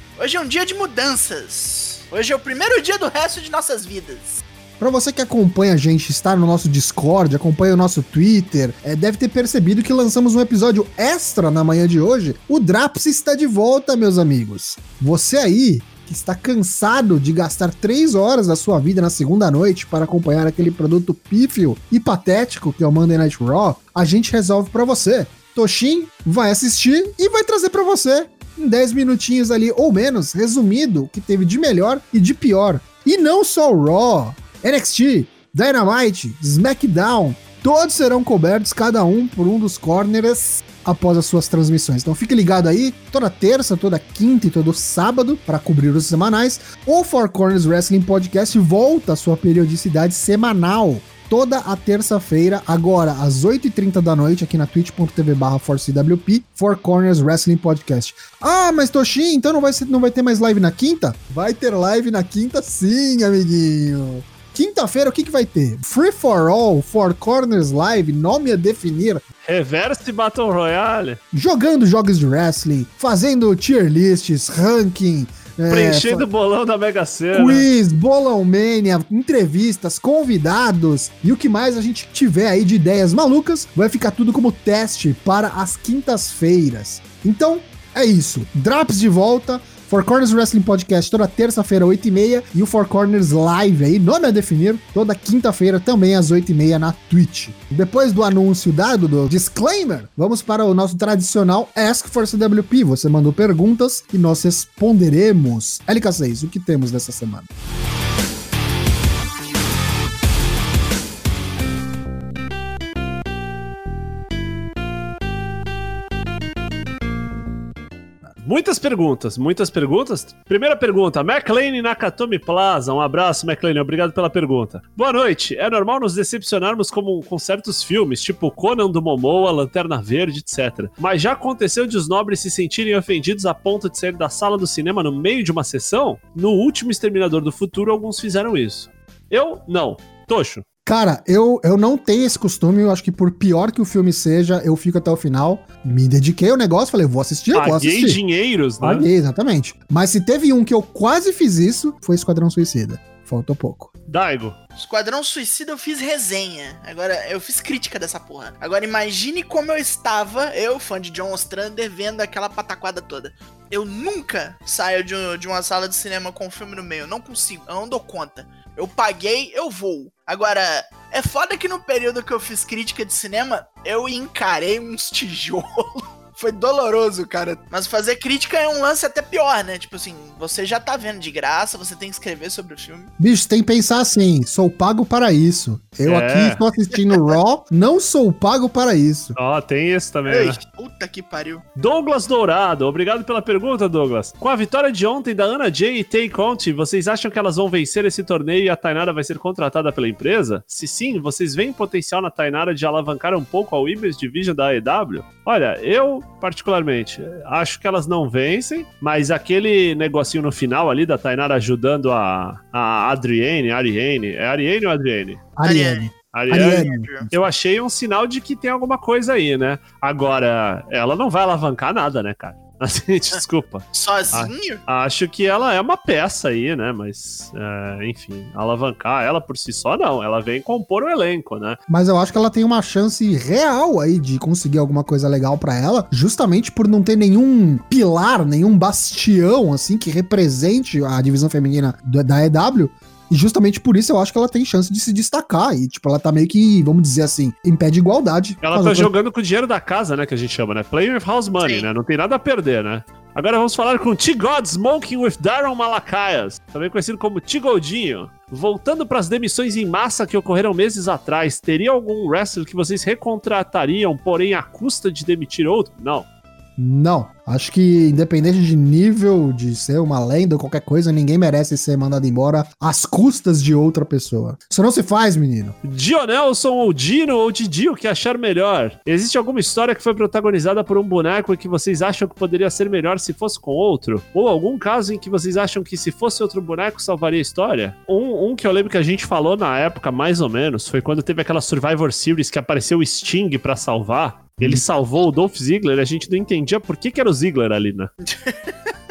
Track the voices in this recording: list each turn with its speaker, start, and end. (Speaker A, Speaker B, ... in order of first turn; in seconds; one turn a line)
Speaker A: 0.2-4.4
Speaker B: 4.8-69.2
Speaker C: 69.4-71.2
Speaker B: 71.3-76.2
Speaker C: 75.7-77.7
Speaker B: 77.3-107.5
Speaker C: 118.4-140.6
Speaker B: 140.8-148.2
Speaker C: 147.5-149.1
Speaker B: 148.8-153.9
Speaker C: 154.1-154.6
Speaker A: 154.8-183.1
Speaker B: 183.2-189.3
Speaker C: 186.0-186.6
Speaker C: 189.3-190.6
Speaker A: 190.3-191.6
Speaker C: 191.8-215.5
Speaker B: 215.6-217.3
Speaker A: 215.6-217.3
Speaker C: 216.3-231.8
Speaker A: 223.9-224.8
Speaker B: 231.9-249.1
Speaker C: 248.6-266.3
Speaker A: 251.6-251.9
Speaker B: 266.8-275.7
Speaker C: 275.8-298.1
Speaker A: 298.3-298.9